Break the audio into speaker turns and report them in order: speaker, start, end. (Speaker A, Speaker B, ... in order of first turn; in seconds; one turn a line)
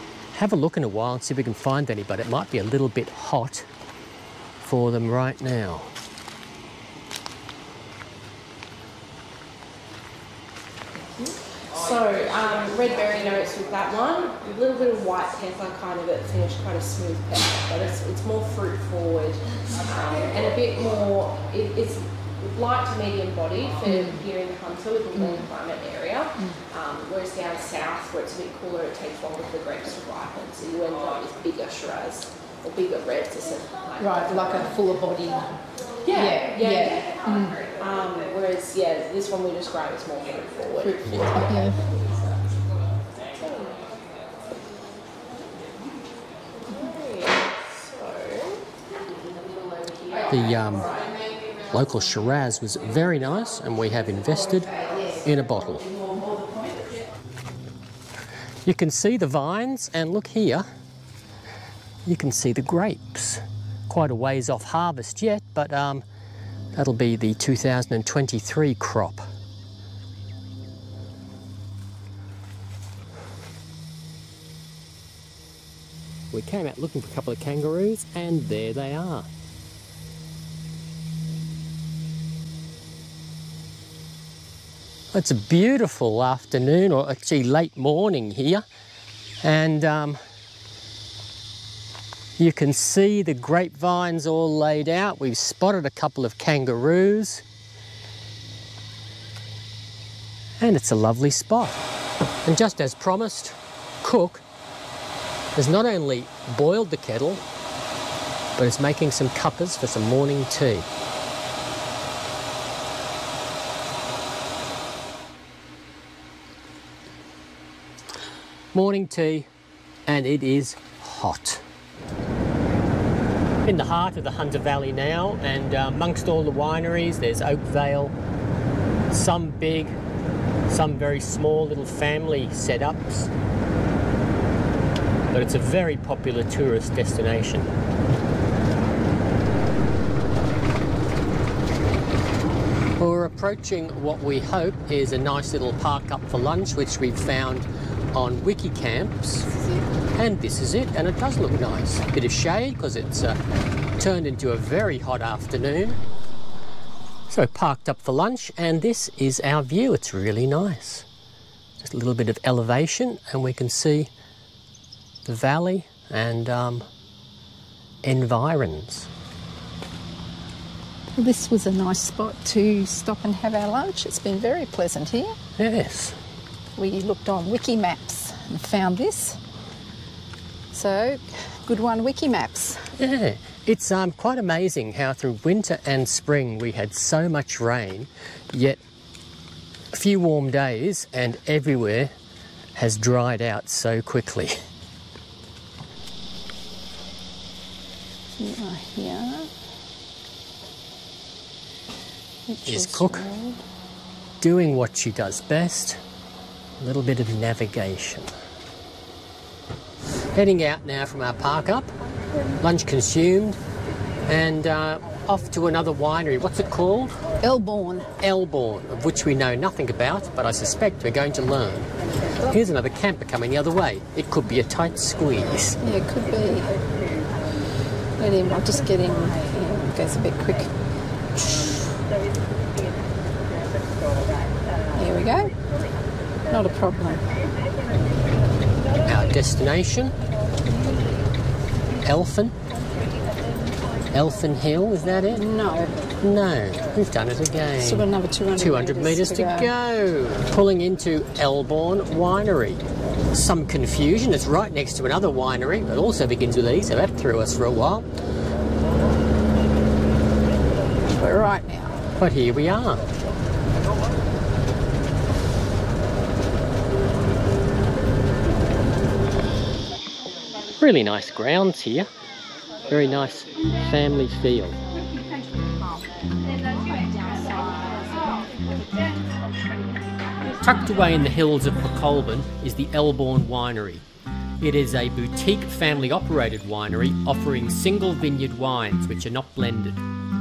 Speaker A: 0.3-3.7
Speaker A: 4.6-5.9
Speaker B: 11.1-34.7
Speaker C: 23.9-24.2
Speaker C: 25.1-25.5
Speaker C: 34.0-35.5
Speaker B: 36.0-42.4
Speaker C: 36.1-37.6
Speaker C: 40.8-41.8
Speaker B: 43.3-43.9
Speaker B: 46.7-50.3
Speaker A: 50.3-51.0
Speaker A: 51.7-55.9
Speaker C: 55.9-56.9
Speaker A: 58.6-60.6
Speaker A: 62.0-66.0
Speaker A: 66.8-69.3
Speaker A: 76.3-79.3
Speaker A: 85.1-88.6
Speaker A: 89.4-90.2
Speaker A: 92.4-97.4
Speaker A: 100.6-101.8
Speaker A: 102.5-104.4
Speaker A: 105.5-107.4
Speaker A: 108.6-110.9
Speaker A: 118.7-119.5
Speaker A: 120.1-121.6
Speaker A: 123.6-128.1
Speaker A: 129.1-129.9
Speaker A: 130.7-133.3
Speaker A: 135.3-137.7
Speaker A: 143.0-149.5
Speaker C: 149.5-149.8
Speaker A: 150.2-153.4
Speaker A: 154.0-156.0
Speaker A: 157.3-161.1
Speaker A: 161.8-164.1
Speaker A: 165.2-166.8
Speaker A: 168.0-169.1
Speaker C: 171.2-175.3
Speaker A: 175.6-176.2
Speaker C: 176.8-179.4
Speaker C: 180.7-182.8
Speaker A: 183.0-188.8
Speaker A: 189.9-192.1
Speaker A: 192.7-194.5
Speaker C: 198.4-199.5
Speaker C: 202.5-203.6
Speaker A: 202.6-203.3
Speaker A: 204.4-206.0
Speaker A: 206.8-208.3
Speaker A: 210.3-211.9
Speaker A: 212.6-213.6
Speaker A: 214.2-217.2
Speaker C: 217.4-218.1
Speaker A: 218.2-221.9
Speaker A: 222.4-225.8
Speaker C: 225.8-226.7
Speaker C: 228.2-230.7
Speaker C: 234.9-235.5
Speaker C: 236.5-237.2
Speaker A: 239.0-240.1
Speaker A: 242.0-242.5
Speaker A: 244.1-245.4
Speaker C: 245.3-245.9
Speaker A: 246.2-258.1
Speaker C: 247.8-249.7
Speaker C: 261.2-261.9
Speaker A: 262.2-263.0
Speaker A: 270.8-272.1
Speaker A: 272.9-274.8
Speaker B: 277.3-277.9
Speaker A: 280.6-284.0
Speaker A: 284.6-290.0